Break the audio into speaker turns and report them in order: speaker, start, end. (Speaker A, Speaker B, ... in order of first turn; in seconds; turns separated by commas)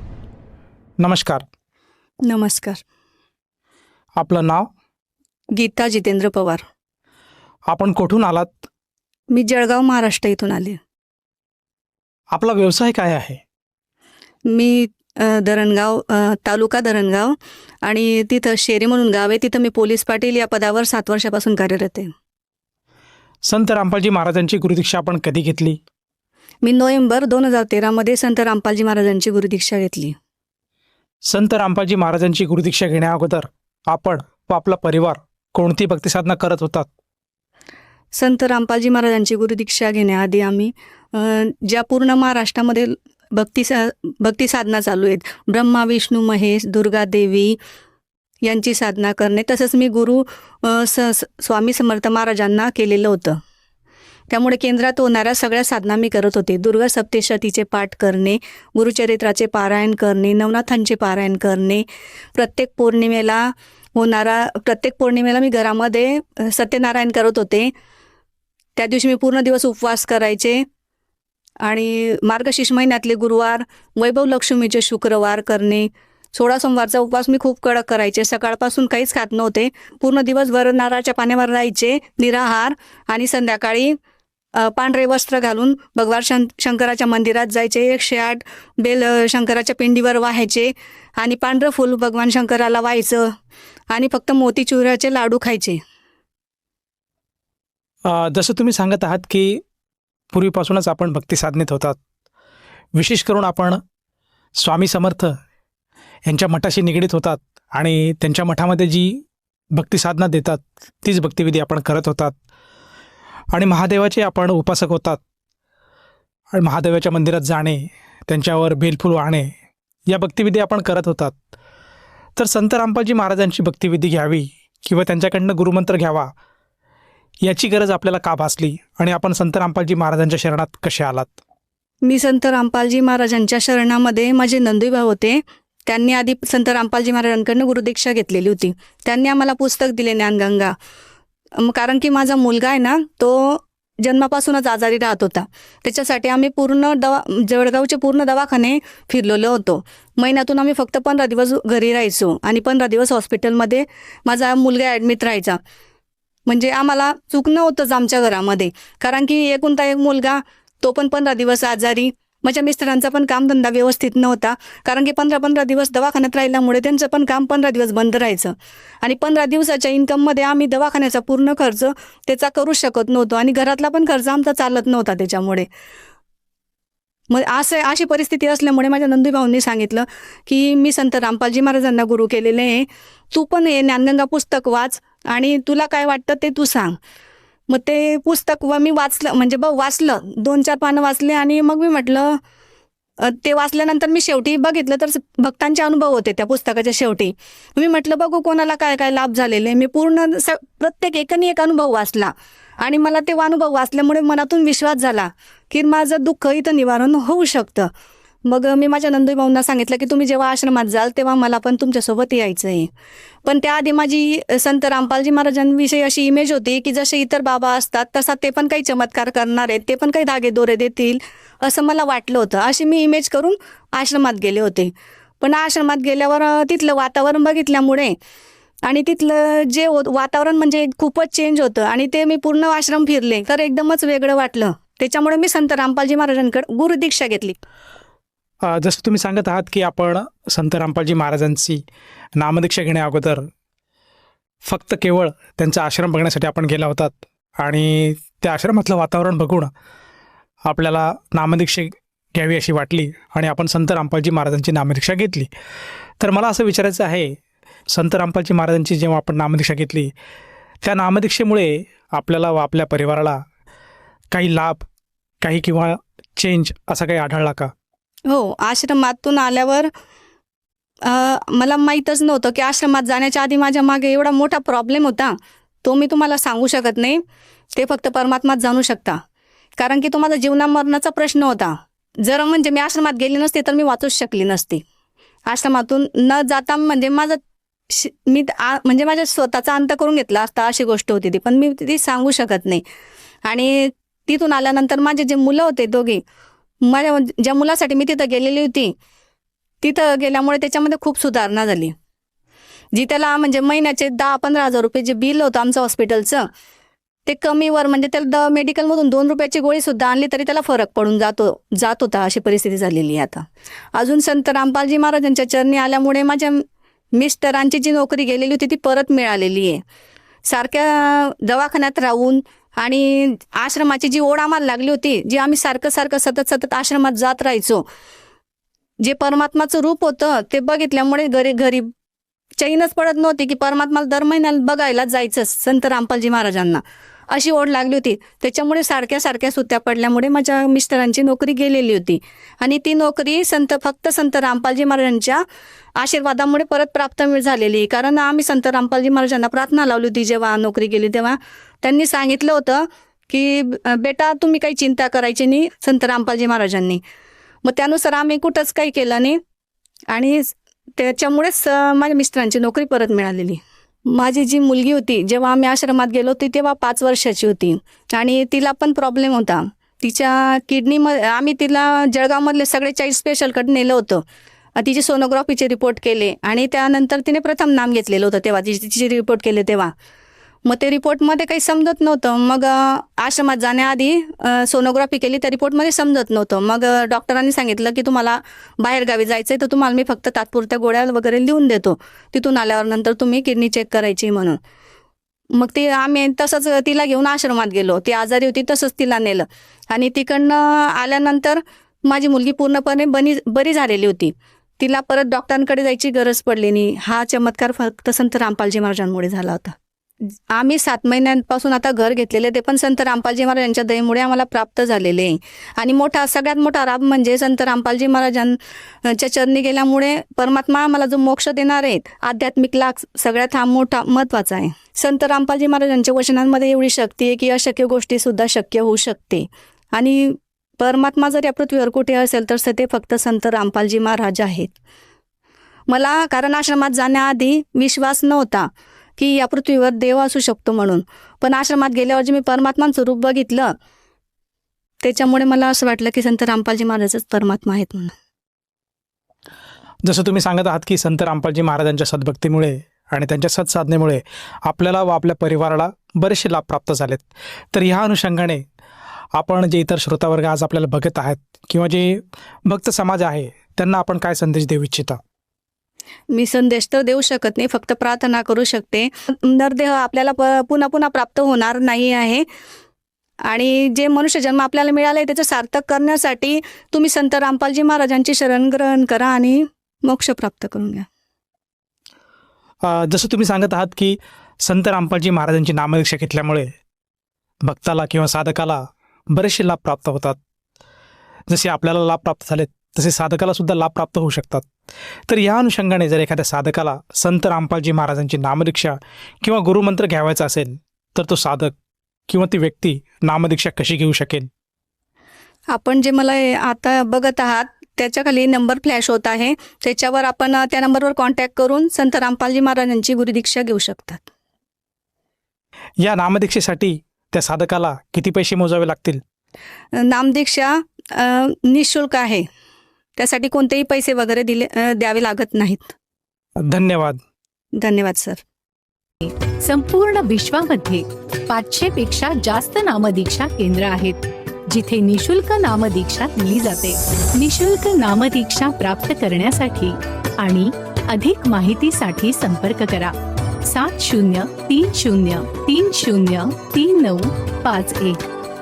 Speaker A: 1.0-1.4, Speaker B: 2.3-2.8, Speaker A: 4.2-4.7, Speaker B: 5.5-6.6, Speaker A: 7.7-8.5, Speaker B: 9.3-10.8, Speaker A: 12.3-13.4, Speaker B: 14.5-22.1, Speaker A: 23.5-25.8, Speaker B: 26.6-30.1, Speaker A: 31.3-36.9, Speaker B: 38.1-47.6, Speaker B: 48.4-53.4, Speaker B: 54.3-61.9, Speaker B: 62.4-67.7, Speaker B: 68.8-70.6, Speaker B: 71.6-84.0, Speaker B: 84.6-93.3, Speaker B: 93.9-95.8, Speaker A: 98.1-99.6, Speaker A: 100.3-102.0, Speaker A: 103.0-103.8, Speaker A: 104.6-105.3, Speaker A: 106.3-109.2, Speaker A: 109.8-112.4, Speaker A: 113.5-115.2, Speaker A: 116.5-119.5, Speaker A: 120.1-121.4, Speaker A: 122.4-126.3, Speaker A: 127.4-131.4, Speaker B: 132.0-140.7, Speaker B: 141.6-155.6, Speaker B: 156.5-175.7, Speaker B: 177.3-186.9, Speaker B: 187.7-192.4, Speaker B: 193.2-207.9, Speaker B: 208.4-212.9, Speaker B: 213.5-228.2, Speaker B: 228.8-237.6, Speaker A: 238.7-241.8, Speaker A: 242.4-243.5, Speaker A: 244.7-249.7, Speaker A: 250.7-255.5, Speaker A: 256.2-257.4, Speaker A: 257.9-260.1, Speaker A: 260.8-263.4, Speaker A: 264.3-264.8, Speaker A: 265.4-267.7, Speaker B: 268.3-269.9, Speaker B: 271.0-277.2, Speaker B: 277.8-279.2, Speaker B: 279.8-284.8, Speaker B: 285.5-287.4, Speaker B: 287.9-292.8, Speaker B: 293.5-296.2, Speaker B: 296.9-298.9, Speaker B: 299.8-301.9, Speaker B: 302.9-306.5, Speaker B: 307.3-313.4, Speaker B: 314.0-316.6, Speaker B: 317.1-319.8, Speaker B: 320.5-327.8, Speaker B: 329.0-331.9, Speaker B: 332.6-345.4, Speaker B: 346.0-357.0, Speaker B: 357.6-359.4, Speaker B: 360.1-374.2, Speaker B: 374.8-379.9, Speaker B: 380.7-394.6, Speaker B: 395.6-409.7, Speaker B: 410.5-434.7, Speaker B: 435.9-438.7, Speaker B: 439.2-443.7, Speaker B: 445.0-448.1, Speaker A: 450.1-458.6, Speaker A: 459.4-465.2, Speaker B: 466.3-472.5, Speaker B: 473.5-481.1, Speaker A: 482.8-486.7, Speaker A: 487.6-490.4, Speaker A: 491.5-494.7, Speaker A: 495.3-501.8, Speaker A: 502.3-504.5, Speaker B: 505.7-514.2, Speaker A: 516.0-519.2, Speaker B: 520.0-522.5, Speaker B: 523.2-525.9, Speaker A: 526.7-527.2, Speaker B: 527.8-528.4, Speaker C: 529.2-543.1, Speaker C: 543.7-548.3